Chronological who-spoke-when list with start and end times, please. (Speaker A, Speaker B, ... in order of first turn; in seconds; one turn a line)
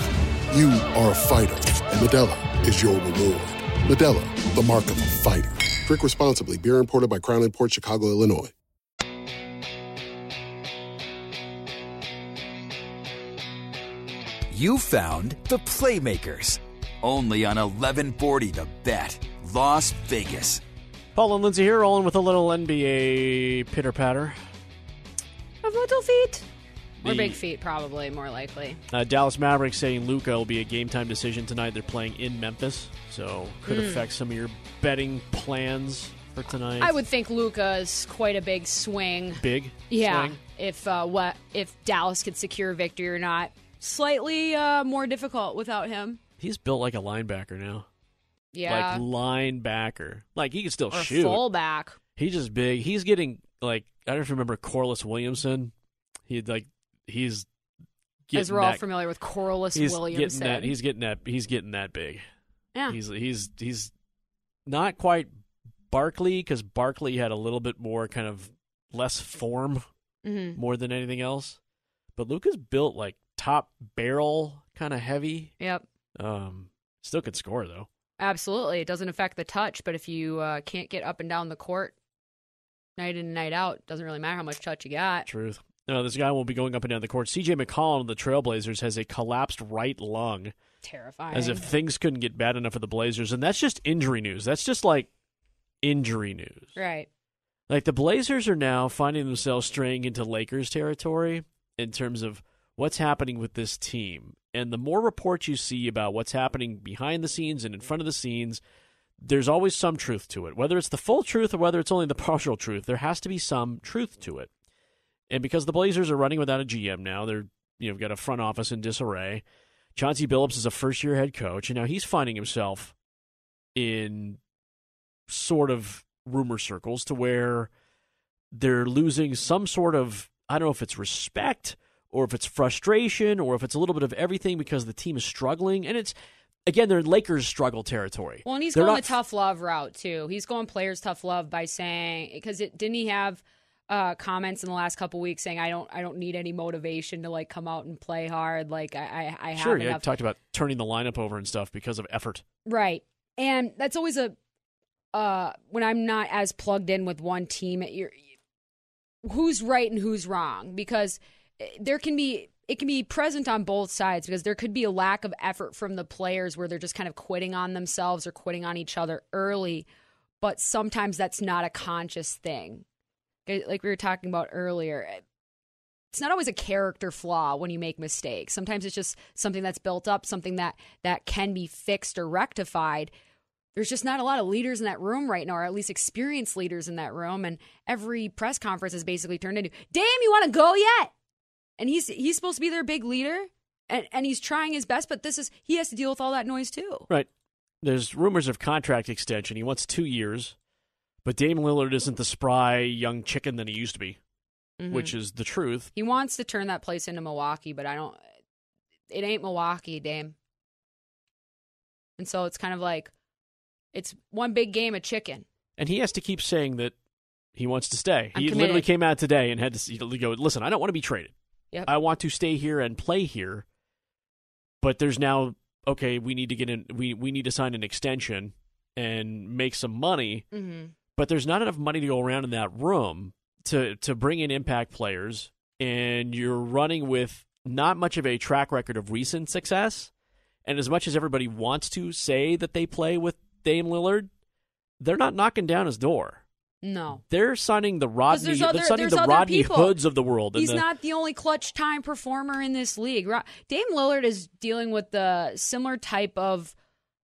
Speaker A: 0.5-8.5
Speaker B: 14.5-20.6
Speaker C: 21.1-24.4
Speaker D: 25.6-26.4
Speaker C: 27.0-27.4
Speaker D: 27.0-28.8
Speaker C: 28.9-36.9
Speaker D: 33.7-34.0
Speaker D: 36.8-46.2
Speaker C: 39.4-40.4
Speaker C: 46.4-47.9
Speaker D: 48.5-49.0
Speaker C: 48.6-51.4
Speaker D: 50.9-52.0
Speaker C: 52.1-55.7
Speaker C: 56.3-57.5
Speaker C: 58.3-58.8
Speaker D: 58.3-60.7
Speaker C: 59.8-62.2
Speaker C: 62.9-63.9
Speaker C: 64.7-65.3
Speaker C: 65.9-69.8
Speaker D: 70.2-70.6
Speaker C: 70.5-71.6
Speaker C: 72.2-75.6
Speaker C: 76.2-77.9
Speaker D: 78.2-81.9
Speaker D: 83.0-85.3
Speaker C: 85.3-90.5
Speaker D: 90.8-91.7
Speaker C: 91.3-95.1
Speaker C: 95.8-96.7
Speaker D: 96.8-97.1
Speaker C: 97.7-108.6
Speaker C: 109.2-114.5
Speaker C: 115.3-119.4
Speaker C: 120.0-122.9
Speaker C: 123.7-124.4
Speaker C: 125.3-127.7
Speaker C: 128.5-136.1
Speaker C: 136.7-139.2
Speaker D: 138.4-150.1
Speaker C: 149.6-152.4
Speaker D: 152.7-154.3
Speaker D: 155.1-158.2
Speaker D: 159.2-169.8
Speaker D: 170.4-172.8
Speaker D: 173.4-175.2
Speaker D: 176.1-183.1
Speaker D: 183.8-191.1
Speaker D: 191.8-197.1
Speaker C: 197.8-200.5
Speaker C: 201.2-204.2
Speaker D: 204.8-205.1
Speaker C: 204.9-205.9
Speaker D: 205.9-208.2
Speaker D: 209.1-210.3
Speaker D: 212.2-213.1
Speaker D: 213.9-215.4
Speaker C: 215.8-216.9
Speaker C: 217.5-221.3
Speaker D: 218.3-218.8
Speaker C: 221.9-223.6
Speaker C: 224.8-230.5
Speaker D: 230.5-230.9
Speaker C: 231.2-240.1
Speaker C: 240.6-244.3
Speaker C: 245.0-246.4
Speaker D: 246.8-247.2
Speaker C: 247.3-250.8
Speaker D: 248.3-249.9
Speaker D: 250.5-256.7